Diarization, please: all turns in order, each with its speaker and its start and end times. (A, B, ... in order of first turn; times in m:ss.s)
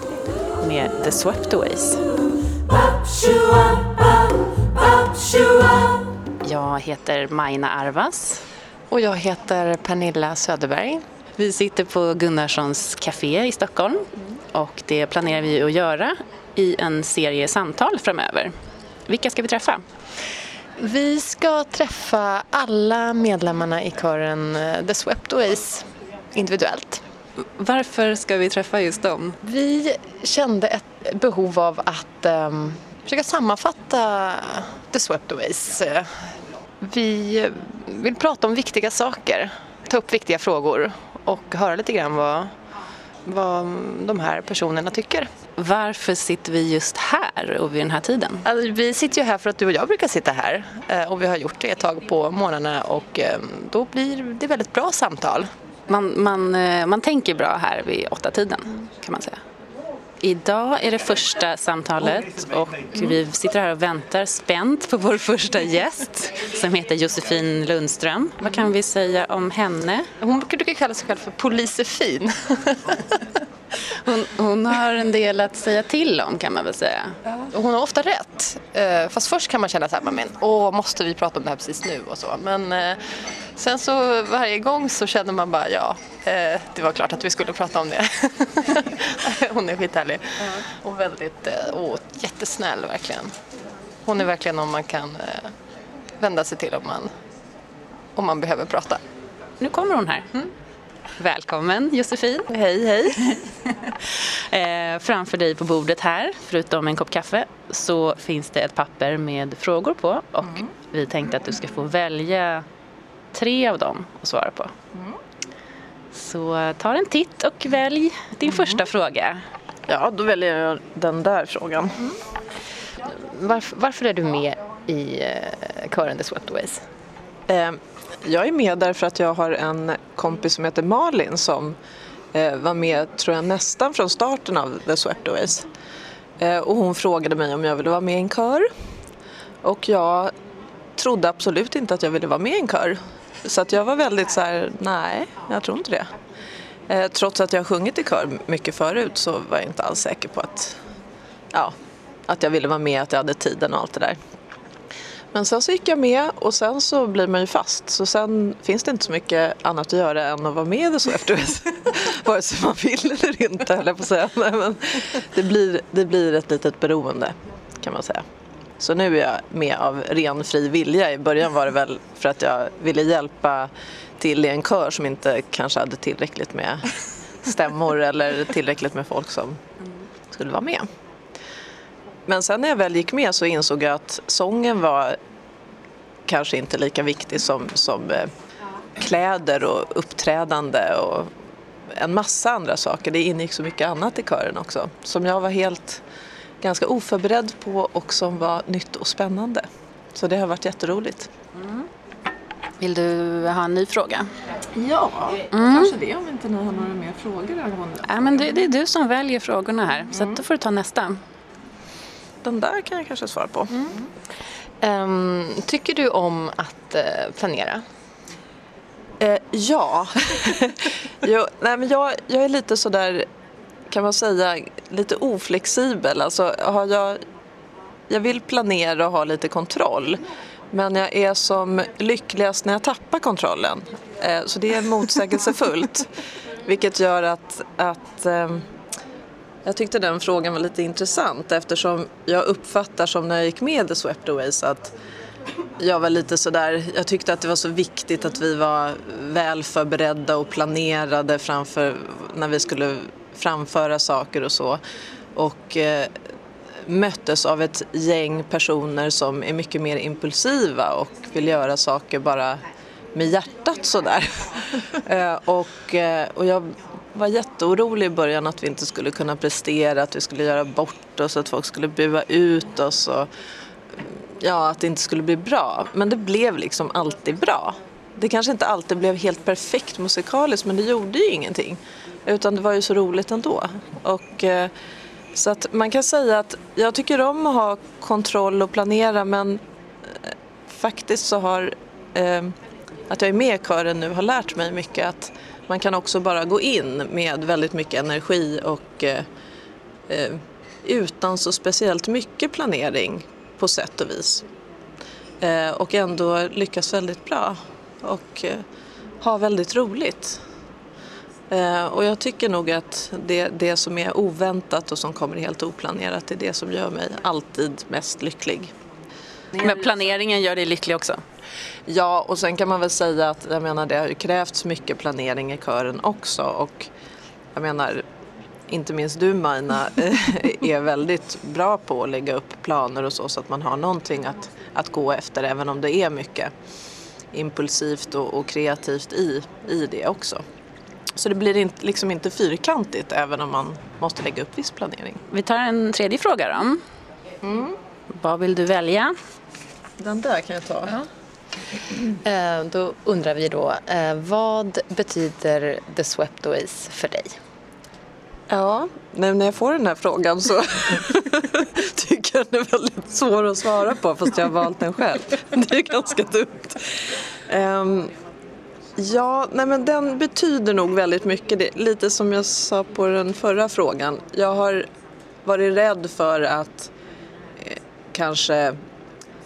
0:00.6-0:02.0 A
0:03.1-0:04.0 A
0:06.4-0:08.4 A
0:08.9-0:11.0 B
0:11.4-0:18.5 A
0:19.1-0:19.8 A
0:20.8-0:27.0 B
0:27.6-0:29.4 A
0:29.4-0:36.1 B
0:36.8-0:42.5 B
0:43.2-0:45.3 B
0:45.6-0:48.4 A
0:48.4-0:55.5 B
0:55.9-0:59.4 A
1:00.2-1:10.1 A
1:10.2-1:13.2 B
1:13.9-1:17.2 A
1:17.3-1:23.0 B
1:23.6-1:33.3 B
1:34.0-1:35.5 B
1:36.2-1:37.1 B
1:38.2-1:39.0 B
1:39.6-1:40.4 A
1:41.2-1:42.5 A
1:42.5-1:43.2 C
1:43.1-1:52.6 A
1:53.3-1:54.7 A
1:56.1-1:59.4 A
1:59.9-2:02.2 C
2:03.0-2:06.8 B
2:07.5-2:11.8 C
2:12.3-2:15.7 C
2:16.4-2:18.7 C
2:19.6-2:20.3 C
2:21.0-2:26.1 C
2:26.9-2:30.8 C
2:32.3-2:34.2 C
2:35.3-2:48.2 C
2:48.8-2:56.8 C
2:57.4-2:59.6 C
3:00.3-3:00.9 C
3:02.3-3:05.2 C
3:06.3-3:08.3 C
3:09.0-3:11.3 C
3:11.9-3:16.0 C
3:16.6-3:21.3 C
3:22.8-3:24.3 A
3:24.7-3:28.5 C
3:25.5-3:25.9 A
3:28.0-3:31.2 A
3:30.1-3:30.4 C
3:32.4-3:34.0 C
3:34.8-3:37.8 B
3:39.2-3:43.2 C
3:43.9-3:47.2 C
3:48.1-3:50.2 C
3:50.7-3:56.1 C
3:56.6-3:58.6 C
3:59.6-4:04.9 C
4:05.8-4:14.8 C
4:15.3-4:16.1 C
4:16.8-4:22.6 C
4:23.1-4:33.3 C
4:34.4-4:44.7 C
4:45.3-4:52.5 C
4:53.1-4:59.2 C
5:00.1-5:04.4 C
5:05.4-5:08.6 C
5:09.2-5:10.4 C
5:11.5-5:18.7 C
5:19.6-5:21.2 A
5:21.9-5:26.9 C
5:27.5-5:28.0 C
5:28.7-5:36.5 C
5:37.3-5:40.4 C
5:41.2-5:45.2 C
5:45.3-5:46.8 A
5:47.4-5:47.8 C
5:48.2-5:49.1 A
5:50.0-5:51.0 C
5:52.2-5:57.4 B
5:58.5-6:08.1 C
6:09.0-6:14.9 C
6:15.4-6:16.9 C
6:17.6-6:18.8 C